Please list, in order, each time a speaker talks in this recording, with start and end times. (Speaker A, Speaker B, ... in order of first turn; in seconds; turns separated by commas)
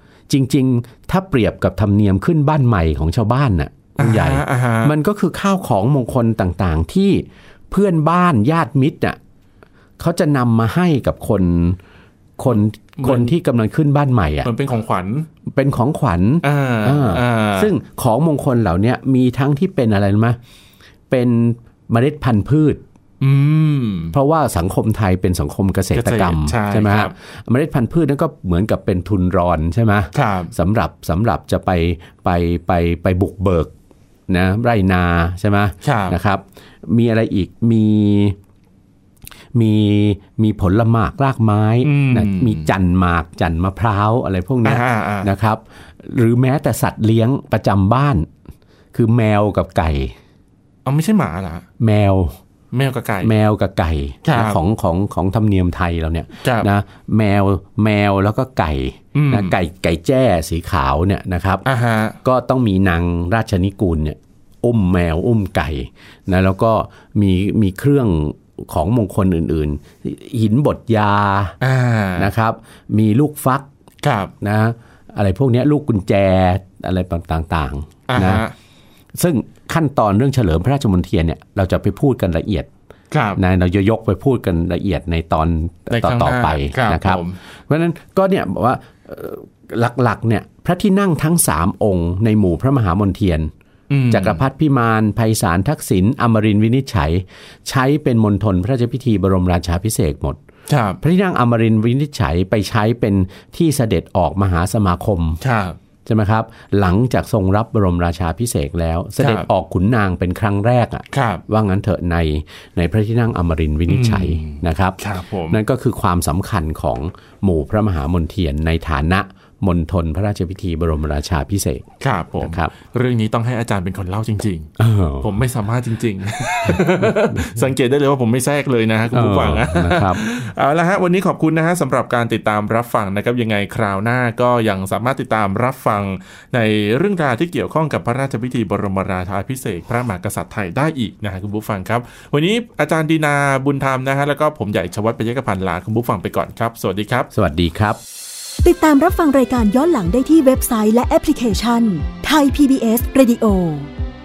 Speaker A: 0.3-9.2, Speaker B: 4.0-5.0, Speaker A: 10.0-11.8, Speaker A: 12.4-14.5, Speaker B: 13.0-13.3, Speaker B: 14.4-15.3, Speaker A: 15.5-20.4, Speaker B: 16.4-17.7, Speaker A: 21.1-22.8, Speaker B: 23.2-24.1, Speaker A: 24.1-33.7, Speaker B: 25.9-27.1, Speaker B: 30.1-30.5, Speaker A: 34.3-38.4, Speaker B: 35.8-36.2, Speaker A: 39.5-48.3, Speaker B: 41.8-42.7, Speaker B: 44.6-45.3, Speaker A: 48.9-50.1, Speaker B: 50.9-51.6, Speaker A: 51.8-52.3, Speaker B: 52.7-53.3, Speaker A: 53.2-61.6, Speaker B: 54.2-54.6, Speaker B: 56.4-56.7, Speaker B: 59.1-59.5, Speaker B: 61.6-62.2, Speaker A: 62.2-71.5, Speaker B: 71.6-72.3, Speaker A: 72.2-73.7, Speaker B: 74.0-74.3, Speaker A: 74.4-78.4, Speaker B: 78.1-78.5, Speaker A: 79.1-82.7, Speaker B: 83.1-83.4, Speaker A: 83.4-93.5, Speaker B: 85.9-87.4, Speaker B: 93.9-94.4, Speaker A: 94.1-100.4, Speaker B: 100.7-101.0, Speaker A: 101.0-105.4, Speaker B: 105.4-105.8, Speaker A: 106.0-121.8, Speaker B: 109.2-109.5, Speaker B: 111.1-111.4, Speaker B: 113.9-115.6, Speaker B: 122.0-147.3, Speaker A: 122.4-122.7, Speaker A: 124.8-125.3, Speaker A: 129.1-130.2, Speaker A: 147.3-148.0, Speaker C: 148.6-153.9